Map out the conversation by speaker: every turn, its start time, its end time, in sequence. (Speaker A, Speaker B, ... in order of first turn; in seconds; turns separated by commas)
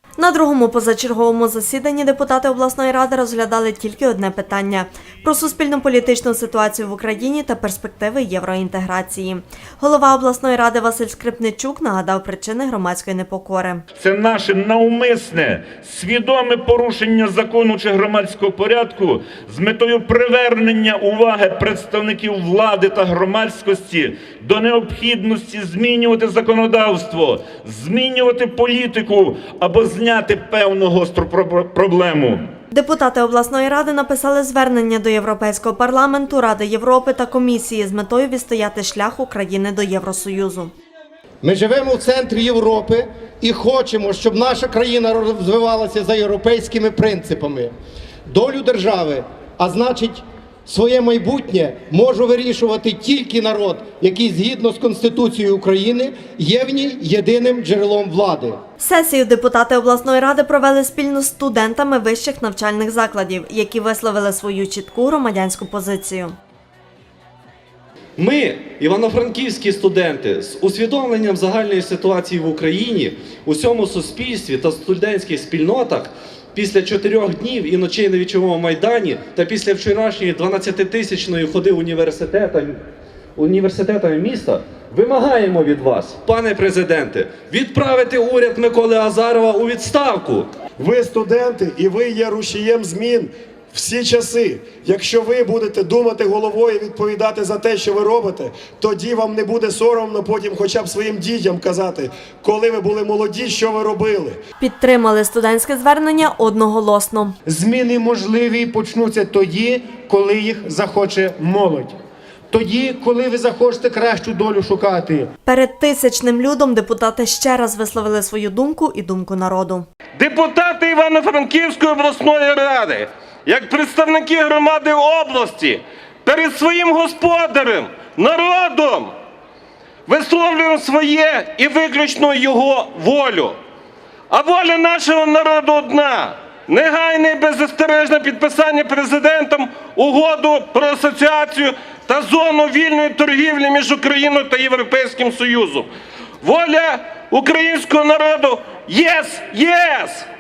Speaker A: 0.2-13.8, Speaker B: 13.9-32.5, Speaker A: 32.7-40.7, Speaker C: 41.4-47.7, Speaker C: 48.3-58.6, Speaker A: 58.8-66.3, Speaker D: 68.2-82.8, Speaker D: 83.4-90.5, Speaker E: 90.8-104.4, Speaker A: 104.6-107.3, Speaker F: 107.5-112.0, Speaker F: 112.5-115.3, Speaker A: 115.5-119.9, Speaker G: 120.2-129.1, Speaker G: 130.1-133.6, Speaker G: 134.3-145.9, Speaker G: 146.4-150.3